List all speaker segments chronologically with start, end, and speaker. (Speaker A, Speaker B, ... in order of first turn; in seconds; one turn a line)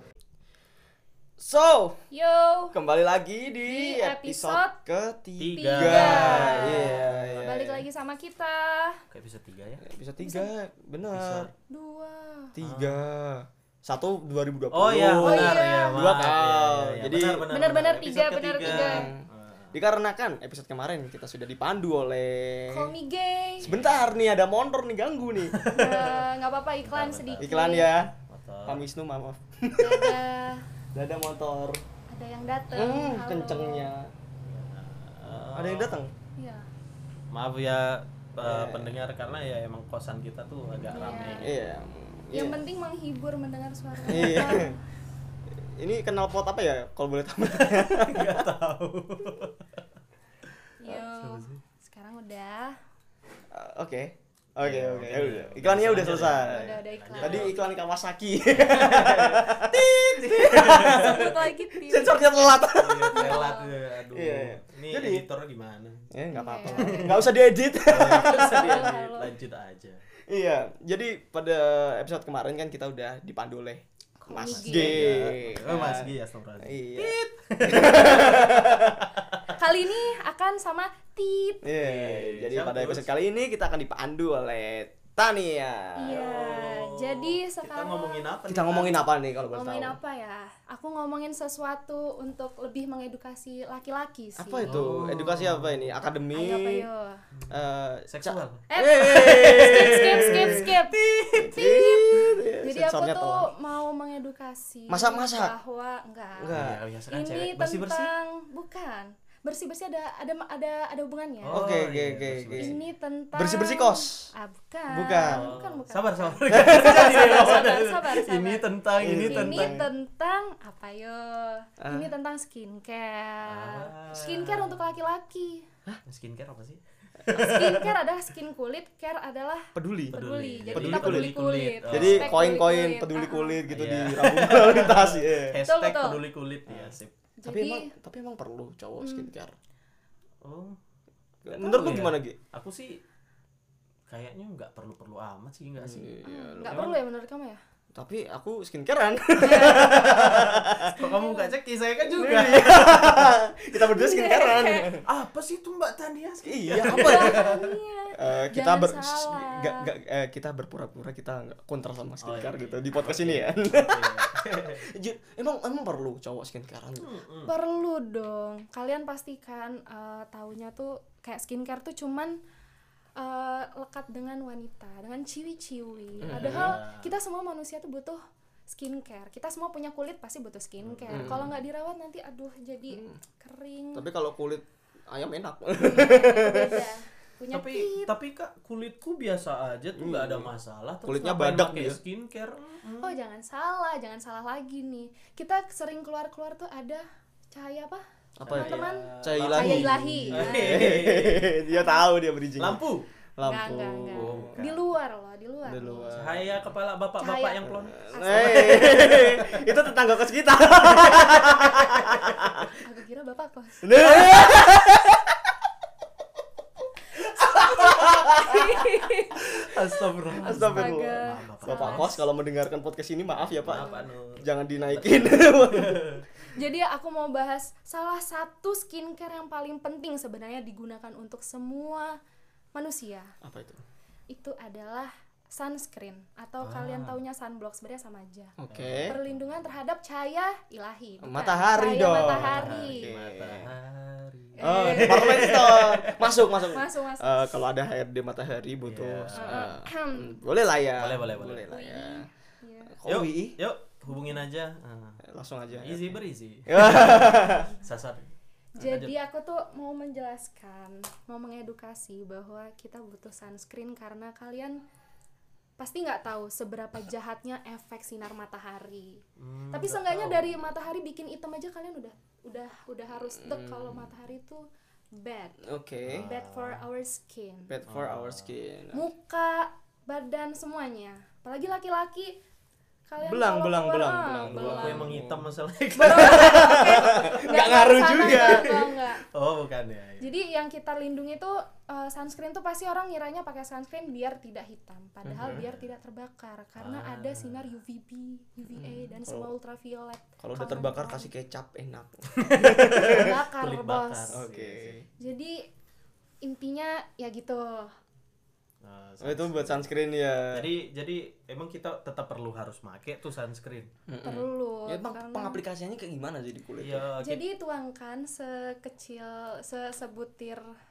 Speaker A: 1.4-2.0
Speaker B: 2.1-2.8
Speaker A: 2.7-7.8
Speaker B: 3.6-4.8
Speaker C: 5.4-7.5
Speaker B: 5.5-9.0
Speaker C: 9.1-9.8
Speaker A: 9.8-11.5
Speaker B: 10.2-10.5
Speaker C: 11.1-11.5
Speaker B: 11.7-12.5
Speaker A: 12.5-17.5
Speaker C: 12.6-13.0
Speaker C: 14.7-19.8
Speaker B: 15.2-16.3
Speaker B: 17.5-19.1
Speaker A: 18.6-22.9
Speaker B: 22.7-23.7
Speaker A: 23.6-25.6
Speaker C: 23.6-24.1
Speaker C: 25.4-26.2
Speaker B: 25.7-28.0
Speaker C: 26.8-27.5
Speaker A: 27.4-28.1
Speaker C: 28.3-28.8
Speaker A: 28.6-30.2
Speaker B: 29.7-30.6
Speaker A: 30.9-31.8
Speaker B: 32.1-33.9
Speaker A: 32.7-34.1
Speaker C: 34.4-36.0
Speaker A: 35.3-36.1
Speaker B: 36.4-36.6
Speaker C: 37.3-41.6
Speaker A: 38.4-39.0
Speaker B: 40.9-41.5
Speaker A: 41.4-42.6
Speaker B: 42.3-44.8
Speaker A: 44.0-44.7
Speaker A: 45.6-48.5
Speaker C: 47.5-49.8
Speaker B: 50.8-52.8
Speaker C: 50.9-51.6
Speaker A: 53.5-63.5
Speaker C: 54.6-57.6
Speaker B: 56.5-57.6
Speaker C: 58.5-61.4
Speaker B: 60.7-63.8
Speaker C: 62.7-66.1
Speaker A: 64.1-65.2
Speaker A: 66.1-68.9
Speaker B: 66.3-67.2
Speaker C: 66.7-70.0
Speaker B: 68.1-69.3
Speaker A: 70.3-79.0
Speaker B: 74.2-75.0
Speaker C: 74.4-79.5
Speaker B: 79.5-81.7
Speaker A: 81.6-86.3
Speaker C: 81.7-83.1
Speaker B: 86.0-88.3
Speaker C: 86.1-89.0
Speaker A: 88.5-90.0
Speaker B: 89.5-94.8
Speaker A: 94.4-96.9
Speaker C: 94.6-96.0
Speaker B: 96.3-97.2
Speaker A: 97.5-100.7
Speaker C: 98.1-101.5
Speaker B: 98.7-111.6
Speaker A: 101.3-103.5
Speaker A: 104.9-105.5
Speaker A: 106.4-106.8
Speaker C: 106.5-108.1
Speaker C: 111.4-112.8
Speaker A: 111.5-112.8
Speaker B: 112.6-125.7
Speaker A: 113.3-114.3
Speaker A: 114.9-115.5
Speaker C: 115.2-119.8
Speaker A: 116.5-117.6
Speaker A: 119.0-119.9
Speaker A: 121.8-122.1
Speaker C: 123.5-124.8
Speaker C: 126.0-128.0
Speaker B: 127.3-133.6
Speaker A: 129.7-130.2
Speaker C: 130.1-132.4
Speaker A: 130.7-135.6
Speaker C: 133.7-137.1
Speaker B: 135.6-136.2
Speaker A: 136.7-139.5
Speaker B: 137.4-137.9
Speaker B: 139.0-139.3
Speaker C: 140.4-140.8
Speaker A: 141.4-142.4
Speaker C: 141.4-143.0
Speaker C: 144.1-147.0
Speaker A: 145.8-146.9
Speaker B: 146.2-147.6
Speaker A: 147.9-150.9
Speaker B: 149.4-150.1
Speaker C: 149.4-153.4
Speaker B: 150.9-151.6
Speaker A: 152.1-155.0
Speaker B: 152.1-152.5
Speaker B: 153.8-155.0
Speaker C: 155.0-157.7
Speaker A: 156.4-157.6
Speaker B: 156.9-159.9
Speaker A: 158.1-167.1
Speaker C: 162.2-164.8
Speaker C: 167.0-167.5
Speaker B: 167.4-172.4
Speaker B: 173.2-178.2
Speaker C: 176.2-177.1
Speaker A: 176.2-176.8
Speaker B: 178.7-184.1
Speaker C: 180.8-181.6
Speaker A: 181.1-181.5
Speaker A: 182.9-183.2
Speaker A: 183.9-186.9
Speaker B: 185.8-188.1
Speaker C: 187.5-193.2
Speaker A: 189.9-190.5
Speaker A: 191.0-192.0
Speaker B: 193.0-200.9
Speaker A: 198.4-202.8
Speaker C: 198.4-201.6
Speaker B: 201.7-202.1
Speaker C: 202.5-203.1
Speaker A: 203.4-204.6
Speaker B: 203.4-206.2
Speaker C: 204.1-204.9
Speaker A: 205.6-206.6
Speaker C: 206.1-209.7
Speaker B: 207.2-209.2
Speaker A: 207.7-212.7
Speaker C: 210.7-212.6
Speaker B: 212.8-213.8
Speaker A: 213.8-215.5
Speaker C: 214.0-214.7
Speaker B: 217.3-219.8
Speaker A: 217.4-218.7
Speaker C: 219.4-222.2
Speaker B: 220.4-222.2
Speaker A: 220.4-226.1
Speaker C: 223.4-226.3
Speaker B: 223.7-224.0
Speaker B: 226.5-232.1
Speaker B: 232.7-233.3
Speaker A: 233.4-233.8
Speaker B: 234.3-238.5
Speaker C: 236.6-237.2
Speaker A: 238.6-239.2
Speaker C: 238.7-239.6
Speaker B: 239.1-243.1
Speaker A: 241.2-243.7
Speaker C: 242.1-246.7
Speaker B: 244.6-245.6
Speaker A: 244.6-252.3
Speaker B: 246.7-247.5
Speaker C: 248.8-249.7
Speaker B: 249.3-250.4
Speaker C: 251.0-251.7
Speaker B: 251.7-252.9
Speaker A: 252.9-253.6
Speaker C: 253.0-255.2
Speaker B: 254.1-254.4
Speaker A: 255.2-256.1
Speaker C: 255.7-259.1
Speaker A: 256.7-257.7
Speaker B: 258.8-264.8
Speaker B: 265.8-269.2
Speaker C: 269.4-270.6
Speaker B: 269.7-274.6
Speaker A: 273.4-274.1
Speaker B: 275.2-275.7
Speaker A: 275.6-276.3
Speaker C: 276.0-276.8
Speaker B: 276.2-277.7
Speaker A: 277.7-279.0
Speaker C: 277.9-278.5
Speaker B: 278.9-282.3
Speaker B: 283.1-285.1
Speaker A: 283.2-285.5
Speaker C: 284.5-287.2
Speaker B: 285.9-289.2
Speaker A: 286.1-289.1
Speaker C: 288.3-288.8
Speaker C: 289.3-290.3
Speaker B: 290.2-301.3
Speaker A: 295.2-295.6
Speaker C: 295.4-295.8
Speaker C: 296.8-297.7
Speaker A: 298.7-299.5
Speaker A: 300.4-303.4
Speaker C: 302.4-305.0
Speaker B: 302.9-304.4
Speaker A: 304.3-305.1
Speaker B: 305.2-305.6
Speaker B: 306.4-307.9
Speaker C: 308.8-309.9
Speaker A: 309.2-310.7
Speaker C: 310.5-313.9
Speaker A: 314.1-317.1
Speaker B: 314.2-315.6
Speaker C: 316.8-317.4
Speaker B: 317.2-320.6